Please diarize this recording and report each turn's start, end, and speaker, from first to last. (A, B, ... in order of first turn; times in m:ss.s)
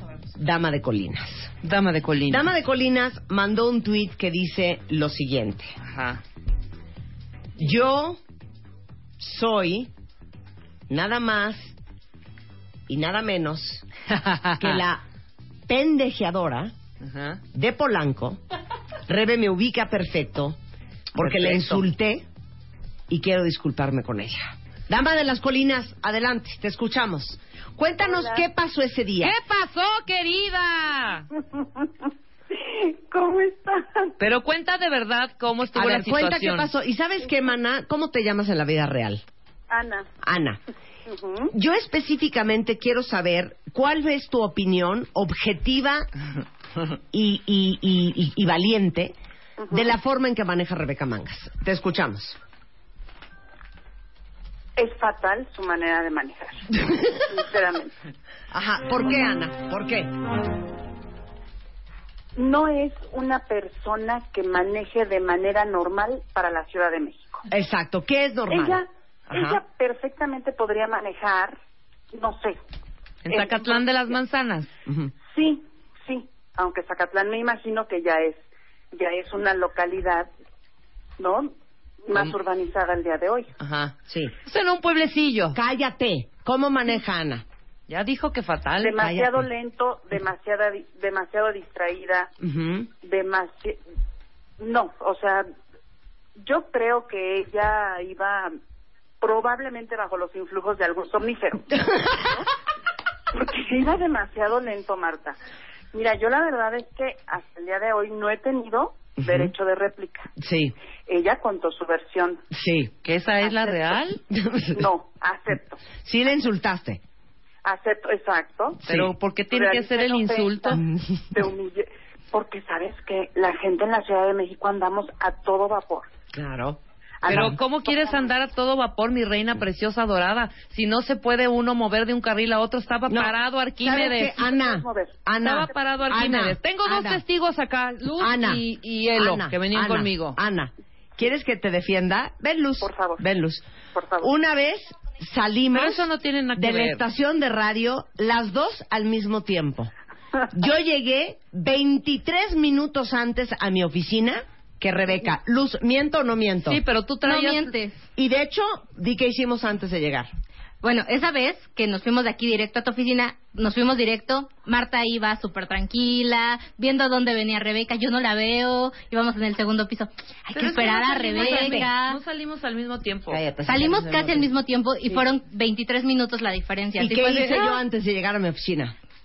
0:00.4-0:01.5 A
0:01.6-0:02.5 B
0:02.3-0:05.8 A
0:05.8-0:06.2 B
0:07.6-0:08.2 A
0:09.2-0:09.9 A
0:10.9-0:11.7 A
0:12.9-0:13.9 A
0:14.1-0:14.8 B
0:14.6-0:15.0 A
0:15.7-0:16.7 A
0:17.0-0:17.4 B
0:17.5-0:18.4 A
0:19.1-0:20.6 A
0:21.2-0:22.2 A
0:21.2-0:21.8 B
0:23.1-0:29.4 A
0:28.0-0:28.4 C
0:29.2-0:31.3 B
0:32.5-0:34.2 C
0:34.2-0:36.7 B
0:35.7-0:39.2 A
0:39.7-0:40.1 C
0:40.2-0:40.6 A
0:41.1-0:41.5 C
0:41.5-0:46.1 A
0:47.1-0:49.1 A
0:49.6-0:49.9 C
0:49.7-0:52.4 A
0:54.8-0:56.7 C
0:57.3-0:57.9 C
0:58.5-1:00.1 A
1:02.4-1:07.5 C
1:07.5-1:09.6 A
1:08.5-1:11.6 C
1:12.1-1:12.6 C
1:13.2-1:14.7 B
1:13.3-1:14.2 C
1:14.9-1:15.1 A
1:15.3-1:20.3 C
1:21.2-1:21.5 C
1:22.1-1:23.5 C
1:23.6-1:25.6 B
1:24.1-1:24.3 A
1:25.5-1:27.4 A
1:27.9-1:29.0 B
1:28.8-1:32.3 C
1:29.0-1:29.5 A
1:32.4-1:32.9 A
1:33.0-1:33.8 C
1:34.6-1:35.5 C
1:36.4-1:38.6 C
1:39.2-1:42.4 C
1:43.3-1:45.4 C
1:45.9-1:50.3 C
1:49.2-1:49.5 A
1:50.4-1:50.8 A
1:51.1-1:52.4 C
1:52.5-1:52.9 A
1:53.0-1:54.2 B
1:53.4-1:54.0 C
1:54.3-1:54.8 A
1:54.7-1:55.8 C
1:56.0-1:57.0 A
1:57.6-1:58.8 C
1:58.8-1:59.1 A
1:58.8-2:00.8 B
1:59.5-2:00.8 C
2:00.7-2:01.2 A
2:01.3-2:06.1 C
2:06.3-2:07.6 A
2:07.2-2:08.3 C
2:07.3-2:14.4 B
2:13.1-2:17.2 A
2:14.2-2:15.2 C
2:15.4-2:20.4 B
2:18.2-2:18.6 A
2:19.2-2:23.6 A
2:22.8-2:23.2 C
2:23.9-2:24.3 C
2:24.2-2:29.9 A
2:25.7-2:27.0 B
2:30.5-2:36.8 A
2:36.7-2:37.7 B
2:37.2-2:38.0 D
2:38.2-2:40.3 A
2:40.8-2:52.2 D
2:50.5-2:51.9 A
2:50.5-2:53.4 B
2:53.3-2:54.5 A
2:53.6-2:57.8 D
2:57.0-2:59.0 A